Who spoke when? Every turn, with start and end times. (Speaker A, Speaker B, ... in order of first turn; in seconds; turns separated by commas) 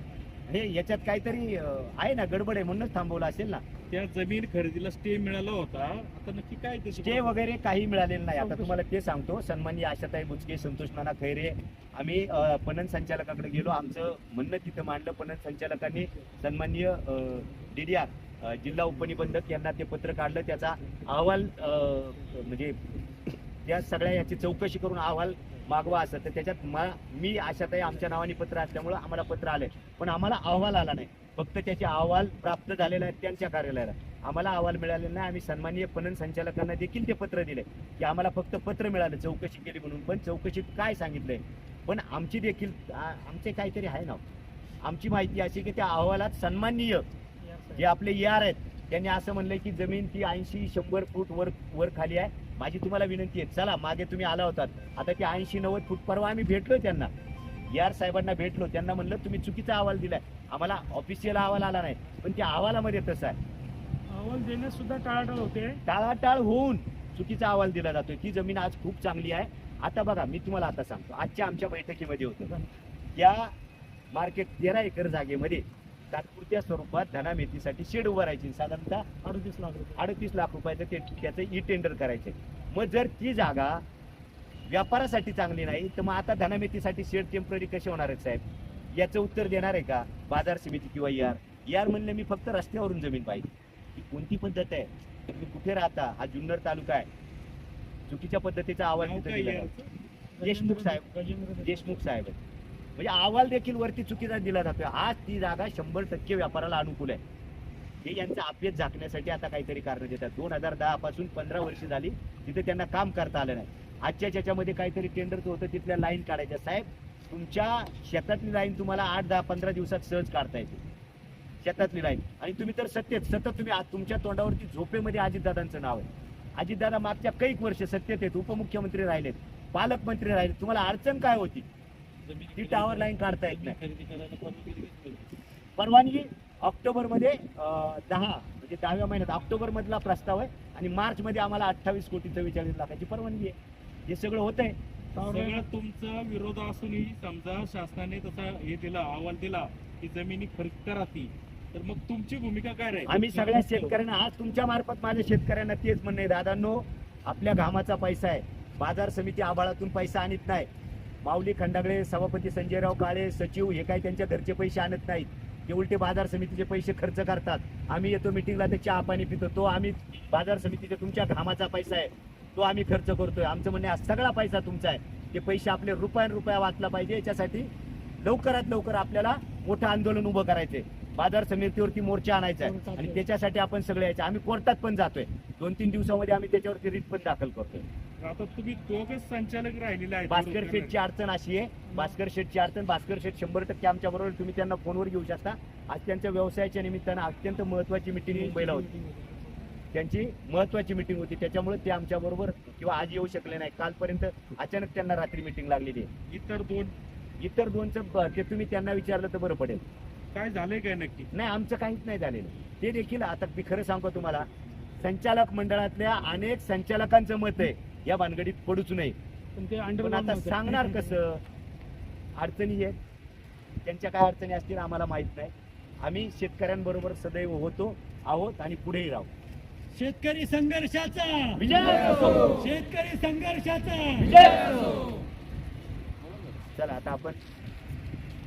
Speaker A: 0.5-3.6, Speaker B: 3.9-7.3, Speaker A: 7.0-44.2, Speaker C: 8.4-8.8, Speaker A: 44.8-47.0, Speaker C: 47.4-47.9, Speaker A: 47.8-57.1, Speaker A: 57.7-63.4, Speaker C: 64.1-65.8, Speaker A: 65.8-72.5, Speaker A: 73.1-73.5, Speaker A: 74.1-79.0, Speaker C: 79.2-80.0, Speaker A: 80.0-83.8, Speaker A: 84.7-88.4, Speaker A: 88.9-97.1, Speaker A: 98.1-99.7, Speaker B: 99.0-99.9, Speaker C: 100.3-102.0, Speaker A: 100.4-101.0, Speaker A: 101.6-102.4, Speaker A: 103.0-107.2, Speaker A: 108.0-120.8, Speaker A: 121.6-131.7, Speaker B: 132.2-135.3, Speaker A: 132.5-133.8, Speaker A: 135.8-143.6, Speaker A: 144.1-144.8, Speaker C: 145.2-145.6, Speaker B: 145.2-153.3, Speaker A: 153.1-160.7, Speaker C: 153.3-153.9, Speaker A: 161.2-177.7, Speaker A: 178.2-187.9, Speaker C: 182.6-183.2, Speaker B: 188.2-190.9, Speaker A: 190.3-198.9, Speaker C: 191.9-192.2, Speaker C: 198.3-199.6, Speaker A: 199.9-206.1, Speaker B: 206.3-206.9, Speaker A: 207.4-209.8, Speaker B: 210.3-211.3, Speaker A: 211.3-214.5, Speaker A: 215.0-219.2, Speaker C: 219.6-221.2, Speaker A: 219.8-221.4, Speaker A: 222.4-222.9, Speaker A: 223.8-229.3, Speaker B: 229.9-231.6, Speaker A: 231.6-232.6, Speaker B: 232.4-234.3, Speaker A: 234.2-235.0, Speaker A: 236.7-237.4